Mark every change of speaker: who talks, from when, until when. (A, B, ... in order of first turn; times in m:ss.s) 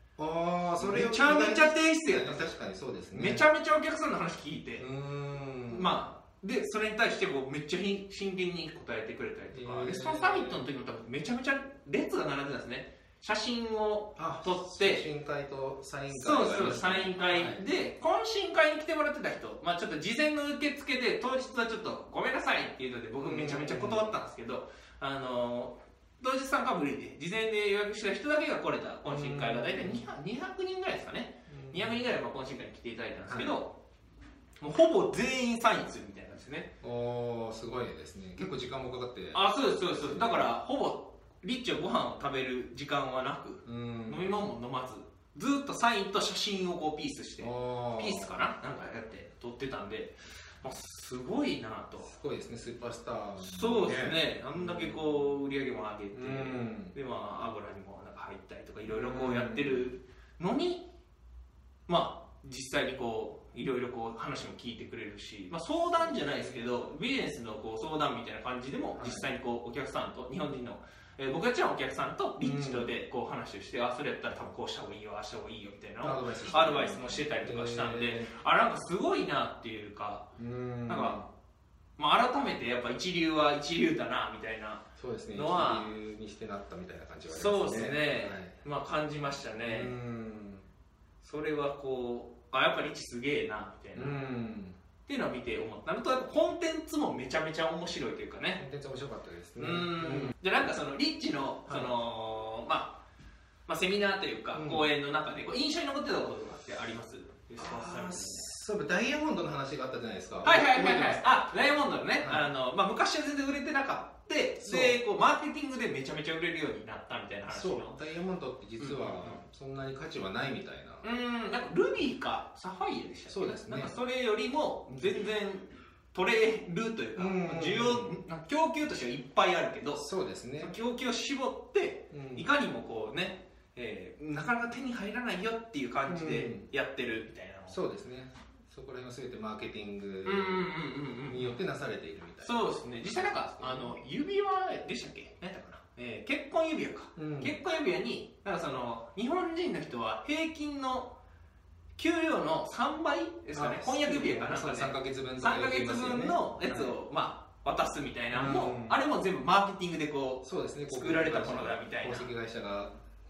0:00.2-0:03.4 A
0:00.8-0:02.6 B
0:03.1-0:04.8 B
0:04.8-0:06.0 A
0:05.7-0:15.1 B
0:09.5-0:10.6 A
0:14.2-0:17.6 A
0:16.1-0:33.8 B
0:23.2-0:24.2 A
0:29.0-0:30.1 A
0:31.5-0:32.1 A
0:33.3-0:33.6 A
0:34.6-0:36.7 B
0:36.8-0:40.5 A
0:39.3-0:52.1 B
0:43.6-0:44.5 A
0:47.4-0:48.4 A
0:52.0-0:55.3 A
0:53.4-1:00.8 B
0:56.1-0:57.0 A
0:58.8-0:59.9 A
1:01.9-1:20.3 B
1:05.9-1:06.7 A
1:09.0-1:09.3 A
1:12.4-1:12.9 A
1:16.0-1:18.3 A
1:20.4-1:21.3 A
1:20.9-1:21.2 B
1:22.0-1:25.9 B
1:25.0-1:28.6 A
1:27.3-1:29.9 B
1:29.6-1:30.6 A
1:31.2-1:34.2 B
1:33.9-1:34.8 A
1:35.0-1:38.6 B
1:38.6-1:40.3 A
1:39.6-1:43.0 B
1:41.7-1:41.9 A
1:43.7-1:48.5 B
1:44.5-1:44.9 A
1:47.6-1:52.5 A
1:50.4-1:58.0 B
1:54.6-1:55.0 A
1:57.5-2:01.1 A
1:58.8-1:59.4 B
2:01.0-2:10.0 B
2:03.3-2:04.0 A
2:07.1-2:08.2 A
2:09.9-2:10.7 A
2:10.6-2:17.8 B
2:12.1-2:12.5 A
2:16.1-2:16.7 A
2:17.7-2:23.9 A
2:20.2-2:21.6 B
2:22.4-2:31.1 B
2:27.2-2:27.6 A
2:32.0-2:42.3 B
2:33.5-2:37.0 A
2:38.3-2:39.0 A
2:40.4-2:42.9 A